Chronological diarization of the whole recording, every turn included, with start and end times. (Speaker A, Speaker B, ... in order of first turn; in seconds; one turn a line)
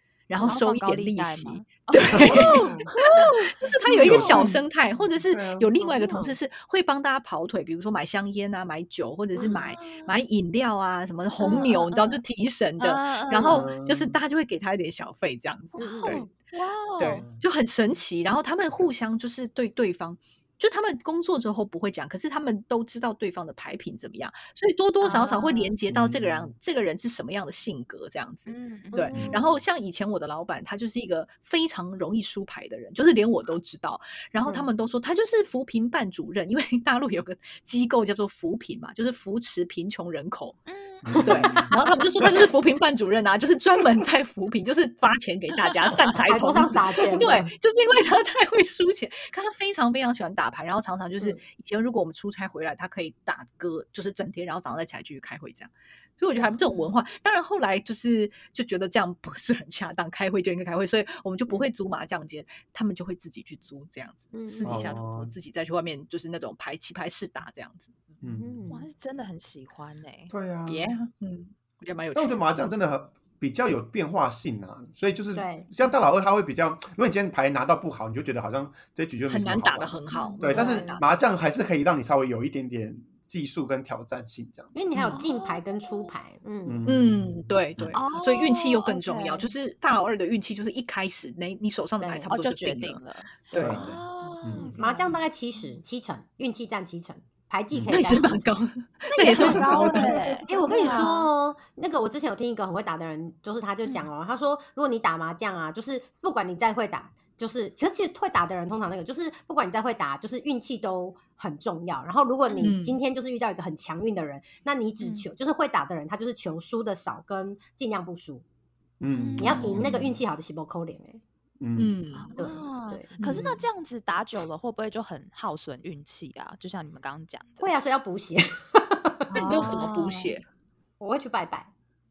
Speaker A: 0.3-16.3
Speaker B: 0.4-4.6
Speaker C: 2.1-2.9
Speaker C: 4.0-4.6
Speaker D: 4.0-4.5
Speaker C: 5.3-5.7
Speaker D: 5.8-6.3
Speaker B: 9.4-10.1
Speaker B: 11.4-12.2
Speaker B: 12.8-13.7
Speaker C: 13.5-14.2
Speaker D: 15.8-16.3
Speaker B: 15.8-17.2
Speaker A: 17.0-40.6
Speaker C: 17.1-17.4
Speaker B: 25.0-25.7
Speaker C: 25.9-26.5
Speaker B: 28.5-29.1
Speaker D: 29.0-29.4
Speaker C: 29.1-29.5
Speaker D: 34.4-34.7
Speaker B: 40.7-41.7
Speaker C: 41.0-42.3
Speaker A: 41.2-68.2
Speaker D: 46.2-47.5
Speaker B: 56.6-56.9
Speaker D: 64.3-64.9
Speaker C: 64.6-65.3
Speaker C: 68.2-68.7
Speaker D: 68.3-68.8
Speaker B: 68.7-70.3
Speaker C: 70.3-70.9
Speaker A: 70.7-72.7
Speaker C: 72.1-84.7
Speaker D: 75.3-75.7
Speaker A: 79.3-81.0
Speaker B: 80.1-80.4
Speaker D: 80.5-81.0
Speaker D: 84.7-86.8
Speaker A: 84.9-85.2
Speaker B: 85.1-86.1
Speaker C: 86.7-88.0
Speaker A: 86.8-94.4
Speaker B: 87.9-89.5
Speaker D: 92.0-92.3
Speaker B: 92.3-95.8
Speaker D: 93.5-93.8
Speaker C: 93.5-94.7
Speaker D: 94.8-98.5
Speaker C: 97.7-98.0
Speaker A: 97.9-101.2
Speaker B: 99.1-101.3
Speaker D: 99.2-118.4
Speaker B: 112.5-112.8
Speaker A: 112.6-113.0
Speaker B: 115.0-115.3
Speaker C: 119.0-120.2
Speaker B: 119.1-119.9
Speaker D: 119.4-121.2
Speaker C: 121.6-122.0
Speaker A: 121.8-122.3
Speaker B: 122.2-127.7
Speaker D: 122.3-123.5
Speaker A: 123.2-123.5
Speaker D: 127.6-130.0
Speaker A: 129.3-130.4
Speaker B: 129.3-130.3
Speaker D: 131.0-131.7